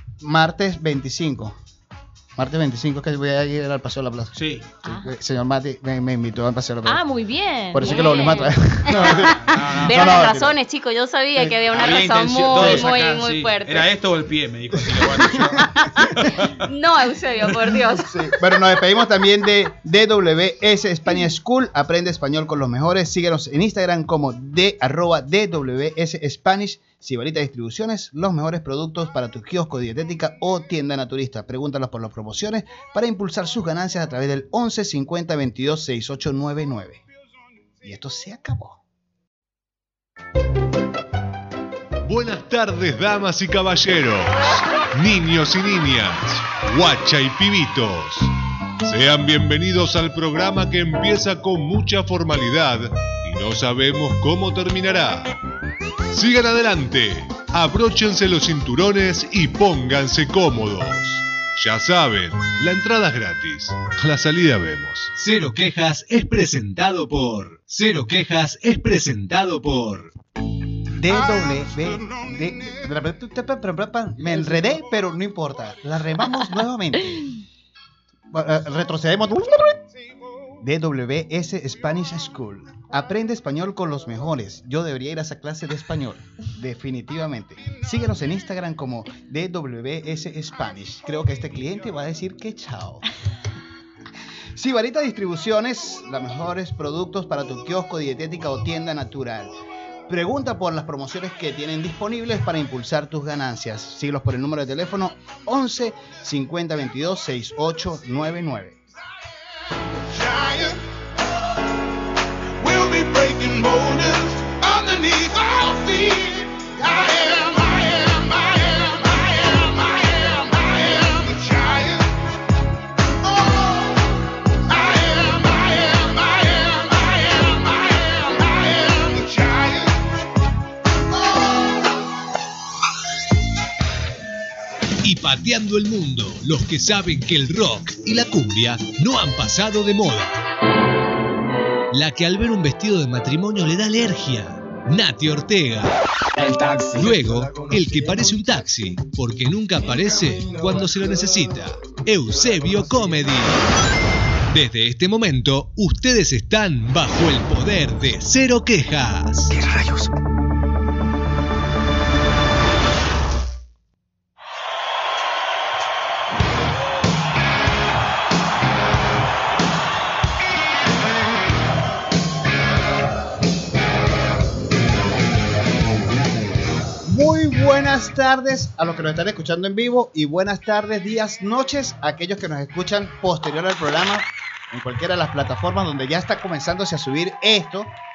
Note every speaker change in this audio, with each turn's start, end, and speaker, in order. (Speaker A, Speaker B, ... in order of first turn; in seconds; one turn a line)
Speaker A: 0.2-1.5
Speaker A: 2.4-7.0
Speaker B: 4.3-4.7
Speaker C: 4.8-5.1
Speaker C: 6.8-8.6
Speaker A: 7.7-10.6
Speaker D: 7.8-13.9
Speaker B: 8.9-10.2
Speaker A: 11.3-11.8
Speaker B: 11.7-16.6
Speaker A: 12.5-12.9
Speaker A: 14.8-16.1
Speaker D: 16.6-18.2
Speaker A: 18.0-37.0
Speaker A: 37.8-38.8
Speaker E: 42.0-48.3
Speaker E: 48.8-55.3
Speaker E: 56.1-65.1
Speaker F: 65.2-70.1
Speaker A: 70.9-77.3
Speaker G: 71.1-72.9
Speaker C: 74.3-74.7
Speaker A: 78.3-79.8
Speaker A: 80.6-93.0
Speaker A: 94.5-99.5
Speaker A: 100.1-108.8
Speaker G: 109.9-110.8
Speaker G: 112.6-122.2
Speaker G: 123.2-124.0
Speaker G: 124.7-130.0
Speaker F: 135.0-140.3
Speaker F: 141.9-146.0
Speaker H: 146.3-148.7
Speaker F: 146.9-153.6
Speaker H: 149.9-151.1
Speaker H: 152.6-153.1
Speaker F: 154.5-159.5
Speaker H: 159.5-160.1
Speaker A: 177.0-187.9